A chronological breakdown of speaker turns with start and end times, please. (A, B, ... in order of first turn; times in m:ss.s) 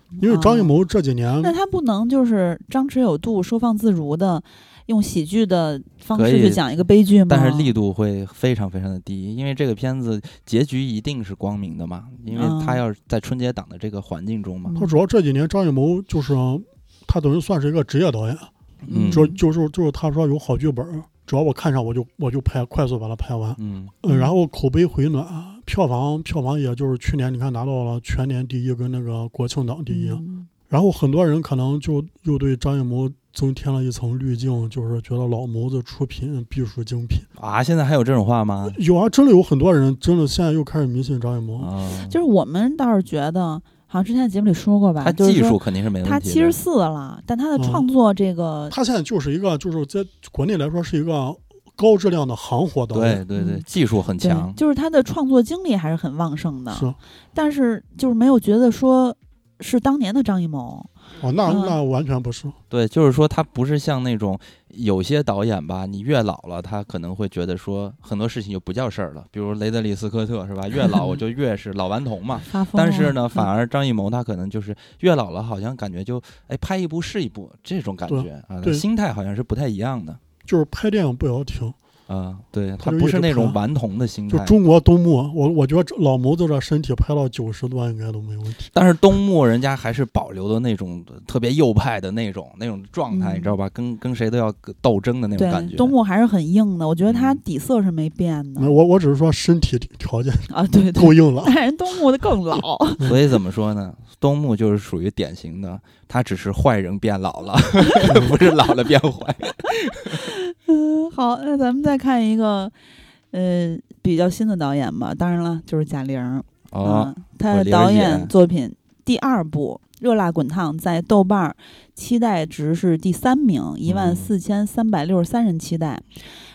0:00.2-0:00.7 A
0:00.2-0:01.5 B
0:01.4-0:07.7 A
0:06.1-0:14.7 C
0:12.3-0:12.8 A
0:14.6-0:15.0 A
0:14.8-0:18.5 B
0:18.9-0:19.4 A
0:18.9-0:19.2 C
0:19.1-0:37.3 B
0:23.6-0:23.9 C
0:24.1-0:24.4 A
0:29.9-0:30.5 A
0:37.4-0:38.8 C
0:38.7-0:41.7 B
0:41.6-0:42.2 C
0:42.0-0:48.8 A
0:45.0-0:46.6 C
0:47.6-0:47.8 B
0:48.7-0:53.2 B
0:52.9-0:54.6 C
0:53.3-0:53.6 A
0:54.2-1:00.9 A
0:56.7-0:57.0 B
1:01.2-1:02.6 B
1:01.4-1:01.8 A
1:02.7-1:20.2 C
1:12.4-1:13.5 A
1:18.1-1:18.8 B
1:20.4-1:21.8 B
1:22.1-1:24.6 C
1:22.8-1:23.6 B
1:24.3-1:28.7 B
1:28.7-1:35.9 C
1:33.1-1:33.5 A
1:35.4-1:38.8 A
1:37.0-1:37.4 C
1:38.6-1:41.5 B
1:40.5-1:43.1 A
1:43.0-1:50.3 C
1:47.9-1:48.2 A
1:50.1-1:52.7 A
1:53.3-2:06.2 A
1:56.7-1:58.3 C
2:03.8-2:04.3 C